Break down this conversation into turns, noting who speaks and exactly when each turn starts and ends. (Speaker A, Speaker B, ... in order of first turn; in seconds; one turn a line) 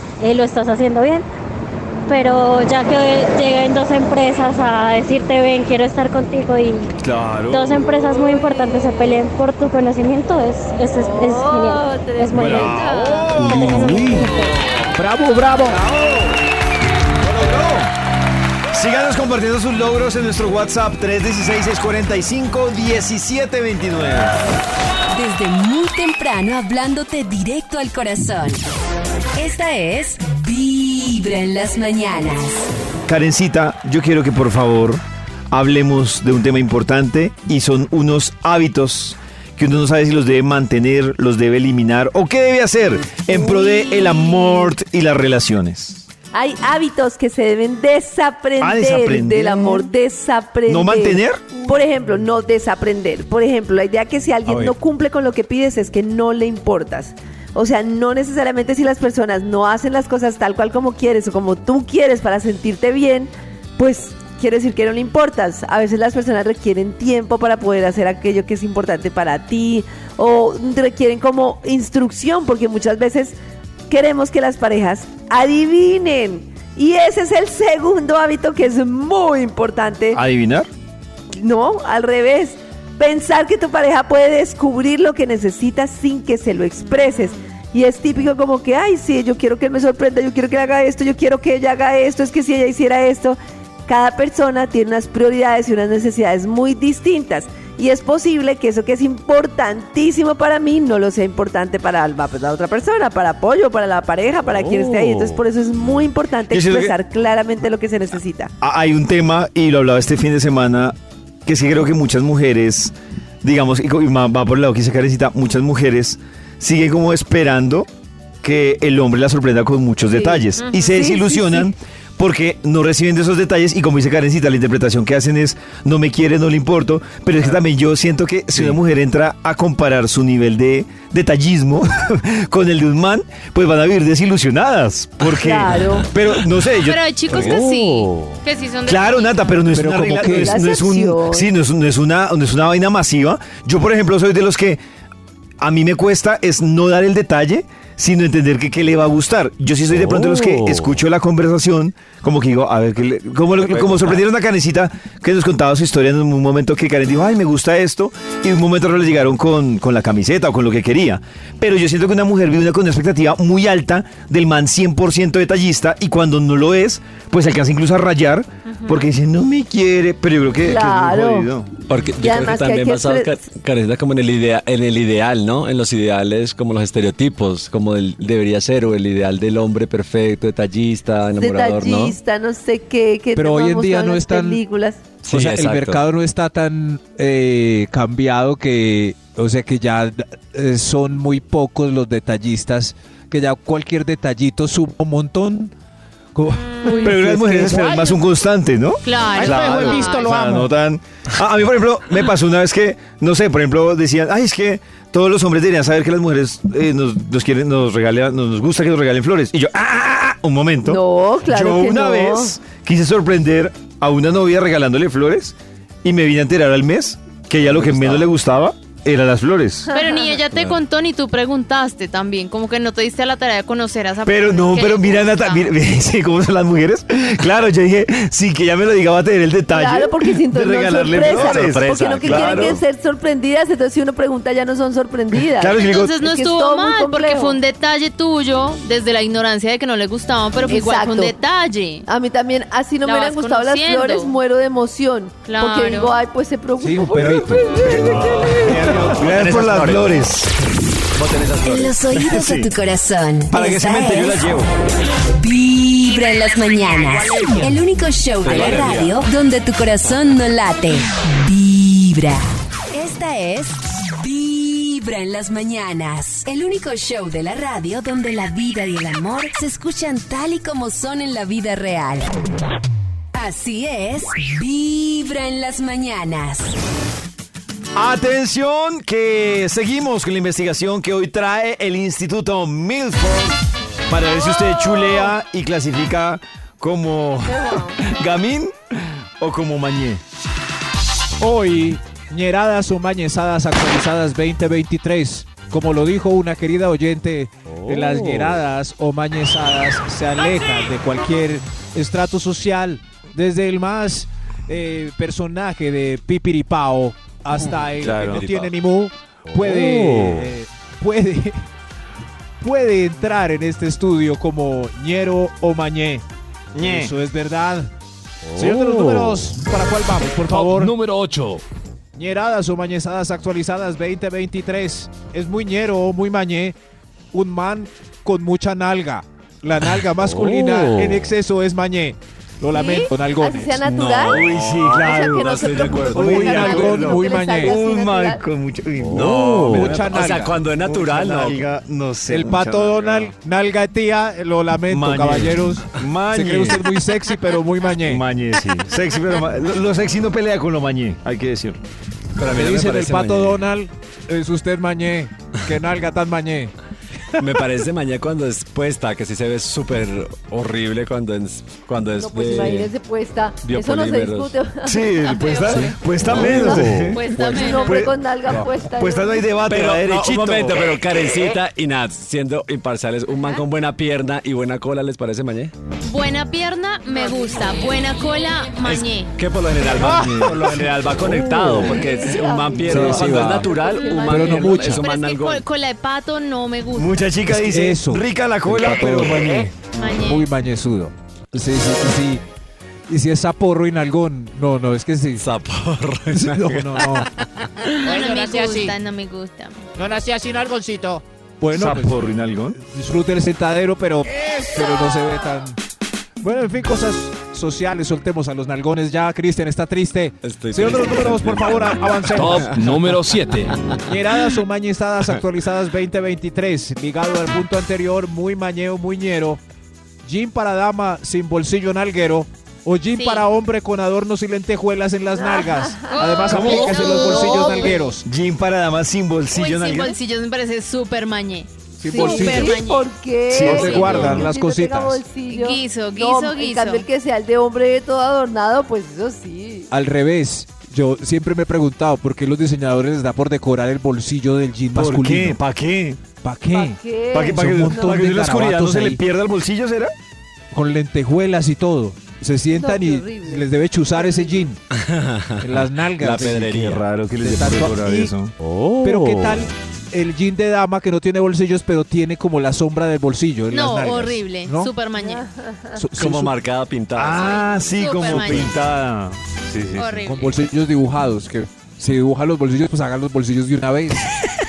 Speaker A: 0.2-1.3
Speaker A: 2.1-6.9
Speaker B: 7.0-7.9
Speaker A: 7.5-14.5
Speaker C: 7.9-9.2
Speaker C: 10.9-13.4
Speaker B: 12.3-14.2
Speaker D: 13.4-14.3
Speaker D: 14.9-15.8
Speaker B: 15.7-16.4
Speaker B: 17.2-17.9
Speaker B: 18.7-24.4
Speaker E: 25.1-28.6
Speaker E: 29.4-32.7
Speaker B: 33.1-35.0
Speaker B: 35.5-46.0
Speaker C: 43.3-44.7
Speaker C: 46.3-73.4
Speaker B: 48.6-49.9
Speaker B: 50.7-51.5
Speaker B: 54.5-54.8
Speaker C: 73.9-80.2
Speaker B: 80.1-80.7
Speaker C: 81.3-108.5
Speaker F: 104.5-105.4
Speaker B: 106.5-107.0
Speaker B: 108.6-111.0
Speaker B: 111.5-117.9
Speaker B: 118.4-137.5
Speaker C: 120.1-121.7
Speaker C: 135.2-136.1
Speaker G: 136.8-139.6
Speaker F: 137.3-138.4
Speaker B: 138.8-144.8
Speaker D: 139.7-140.6
Speaker C: 140.4-141.5
Speaker B: 145.6-171.7
Speaker F: 150.0-150.9
Speaker H: 153.6-154.2
Speaker G: 168.7-169.0
Speaker C: 170.6-171.5
Speaker H: 171.9-182.2
Speaker C: 172.2-173.4
Speaker C: 181.4-185.0
Speaker D: 183.3-184.6
Speaker H: 185.2-186.0
Speaker D: 185.3-195.7
Speaker D: 196.3-197.9
Speaker G: 196.8-197.1
Speaker B: 196.9-219.9
Speaker G: 199.1-200.5
Speaker I: 199.9-200.5
Speaker C: 210.9-212.6
Speaker H: 217.7-218.3
Speaker C: 219.9-220.4
Speaker G: 219.9-225.7
Speaker B: 224.2-232.8
Speaker C: 229.7-237.6
Speaker H: 231.2-232.8
Speaker B: 235.4-236.1
Speaker G: 235.8-242.1
Speaker C: 240.7-241.4
Speaker C: 242.1-247.5
Speaker G: 243.0-244.3
Speaker G: 245.5-246.1
Speaker D: 246.8-249.4
Speaker B: 247.2-250.5
Speaker H: 248.7-250.1
Speaker H: 251.2-252.0
Speaker E: 251.6-254.5
Speaker B: 252.1-252.7
Speaker B: 253.5-254.7
Speaker E: 255.3-272.4
Speaker H: 258.4-259.2
Speaker E: 273.3-276.8
Speaker B: 277.9-290.2
Speaker C: 287.5-288.0
Speaker D: 291.4-311.7
Speaker F: 297.7-298.5
Speaker H: 307.8-308.7
Speaker F: 309.5-310.5
Speaker D: 312.6-316.2
Speaker B: 316.8-317.1
Speaker D: 316.8-317.9
Speaker F: 318.5-319.4
Speaker D: 318.6-321.0
Speaker F: 320.5-321.6
Speaker D: 322.1-326.8
Speaker D: 327.3-333.8
Speaker F: 330.2-331.3
Speaker C: 332.7-338.4
Speaker B: 333.9-343.3
Speaker H: 333.9-336.6
Speaker D: 336.1-337.8
Speaker F: 339.0-339.7
Speaker H: 339.2-341.7
Speaker D: 339.6-340.6
Speaker D: 342.3-348.2
Speaker B: 344.9-346.9
Speaker B: 348.0-351.8
Speaker H: 352.4-353.6
Speaker D: 352.4-356.7
Speaker H: 357.4-362.9
Speaker C: 362.2-365.3
Speaker H: 363.6-364.6
Speaker B: 364.8-371.0
Speaker G: 365.3-366.0
Speaker H: 366.2-366.9
Speaker G: 366.7-368.0
Speaker F: 366.7-367.1
Speaker C: 367.4-369.5
Speaker H: 369.6-375.7
Speaker G: 376.0-379.3
Speaker H: 378.8-385.6
Speaker B: 379.9-382.0
Speaker C: 382.0-384.6
Speaker B: 382.9-383.6
Speaker D: 382.9-383.7
Speaker G: 384.0-387.2
Speaker D: 384.3-385.0
Speaker B: 386.9-389.7
Speaker D: 387.5-389.6
Speaker G: 389.9-390.5
Speaker D: 390.2-392.4
Speaker D: 393.1-395.5
Speaker H: 395.4-397.3
Speaker D: 396.3-397.3
Speaker G: 398.0-399.9
Speaker I: 398.0-398.9
Speaker I: 400.0-401.2
Speaker D: 401.6-402.2
Speaker B: 401.7-402.8
Speaker D: 402.8-405.8
Speaker D: 406.4-413.0
Speaker H: 410.4-412.7
Speaker F: 412.4-413.8
Speaker D: 414.0-419.6
Speaker D: 420.2-428.2
Speaker G: 423.1-423.4
Speaker C: 425.4-428.1
Speaker G: 426.1-427.9
Speaker B: 426.5-427.4
Speaker B: 428.2-430.2
Speaker G: 429.5-433.1
Speaker D: 432.0-432.8
Speaker C: 432.1-439.9
Speaker B: 433.5-434.5
Speaker D: 433.5-435.2
Speaker G: 435.5-437.1
Speaker D: 439.9-445.6
Speaker B: 444.9-446.2
Speaker D: 446.4-449.2
Speaker C: 446.7-448.2
Speaker B: 447.3-450.1
Speaker D: 450.7-454.8
Speaker C: 452.7-454.7
Speaker H: 454.9-457.1
Speaker D: 455.6-456.7
Speaker B: 456.4-458.6
Speaker D: 457.4-458.3
Speaker F: 458.6-459.6
Speaker D: 459.0-464.9
Speaker G: 463.7-465.4
Speaker C: 465.2-466.0
Speaker D: 466.0-466.6
Speaker H: 466.2-467.8
Speaker B: 467.1-470.2
Speaker G: 467.3-468.8
Speaker G: 470.0-470.6
Speaker D: 470.2-474.4